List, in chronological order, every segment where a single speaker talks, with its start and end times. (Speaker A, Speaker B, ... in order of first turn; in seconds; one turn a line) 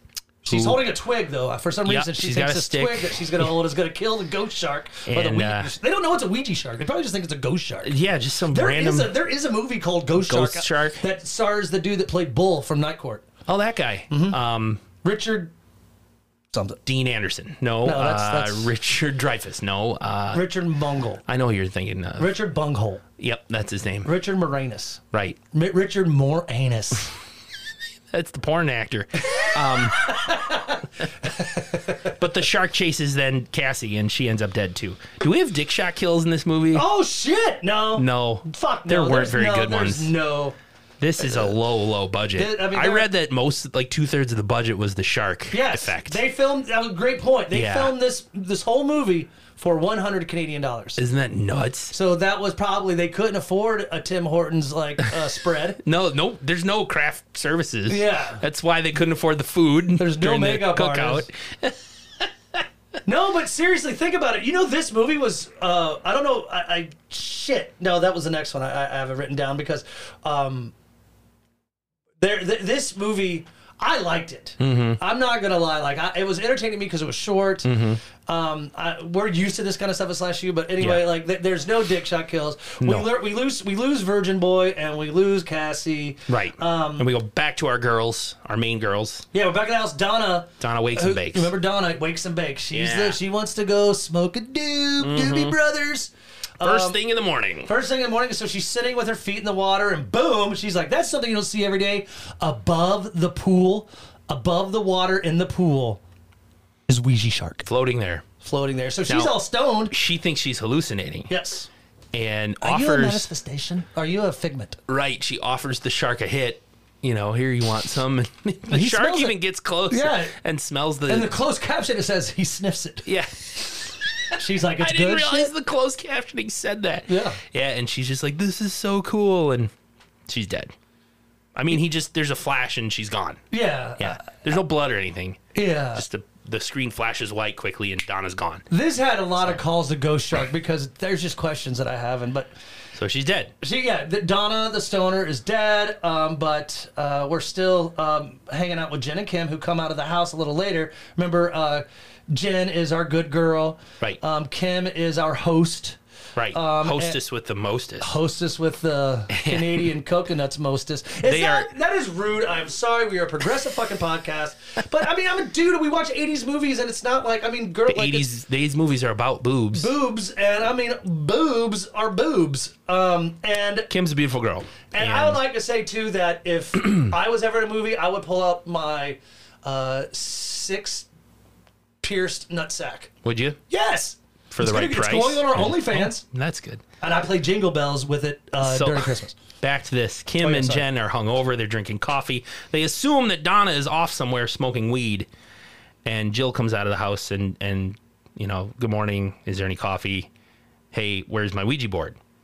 Speaker A: 0.4-7.9
Speaker B: 0.5-0.8
Speaker B: 1.8-3.5
Speaker B: 5.1-5.7
Speaker B: 7.8-9.1
Speaker A: 8.5-13.3
Speaker B: 10.2-11.0
Speaker B: 13.5-14.8
Speaker A: 14.1-14.4
Speaker A: 15.0-15.5
Speaker A: 16.5-16.8
Speaker B: 16.9-20.5
Speaker A: 17.8-18.7
Speaker A: 20.3-21.2
Speaker B: 21.2-22.3
Speaker A: 22.2-23.0
Speaker B: 23.2-24.1
Speaker A: 24.0-27.1
Speaker B: 25.1-25.4
Speaker B: 28.1-30.4
Speaker A: 29.3-32.1
Speaker B: 32.1-36.9
Speaker A: 36.7-40.5
Speaker B: 38.0-40.1
Speaker B: 41.0-46.2
Speaker A: 41.2-41.5
Speaker A: 42.4-43.1
Speaker A: 45.5-51.0
Speaker B: 47.5-47.9
Speaker B: 51.0-51.9
Speaker A: 51.9-55.8
Speaker B: 55.8-62.6
Speaker A: 57.9-58.4
Speaker A: 60.0-61.3
Speaker A: 63.0-70.7
Speaker A: 72.2-87.1
Speaker B: 74.6-75.0
Speaker B: 77.6-78.0
Speaker B: 80.8-81.0
Speaker B: 82.8-83.1
Speaker B: 86.3-89.2
Speaker A: 89.3-97.0
Speaker B: 90.6-91.5
Speaker B: 92.7-93.2
Speaker B: 95.0-95.6
Speaker B: 96.6-97.7
Speaker A: 97.6-106.0
Speaker A: 106.9-107.7
Speaker B: 107.7-108.2
Speaker A: 108.4-109.9
Speaker B: 109.1-109.3
Speaker B: 109.9-111.3
Speaker A: 111.3-111.7
Speaker B: 112.1-113.3
Speaker A: 112.6-114.8
Speaker B: 114.9-121.3
Speaker A: 118.7-119.3
Speaker A: 119.9-120.3
Speaker A: 121.1-123.1
Speaker B: 123.0-129.7
Speaker A: 124.3-125.5
Speaker A: 127.1-127.4
Speaker B: 130.3-130.7
Speaker B: 131.5-133.4
Speaker A: 133.5-134.4
Speaker B: 134.0-135.4
Speaker A: 135.5-136.0
Speaker B: 135.9-138.7
Speaker A: 138.7-142.5
Speaker B: 142.9-143.5
Speaker A: 143.6-156.0
Speaker B: 156.3-158.1
Speaker A: 156.5-157.2
Speaker A: 158.0-168.3
Speaker B: 159.3-159.9
Speaker B: 161.2-161.7
Speaker B: 167.9-169.9
Speaker A: 169.7-173.9
Speaker B: 173.9-175.4
Speaker A: 174.9-181.1
Speaker A: 182.0-183.1
Speaker B: 183.2-183.6
Speaker A: 183.7-186.2
Speaker B: 184.5-186.8
Speaker A: 187.0-189.3
Speaker B: 188.6-195.3
Speaker A: 190.4-190.8
Speaker B: 196.0-200.3
Speaker B: 200.9-202.2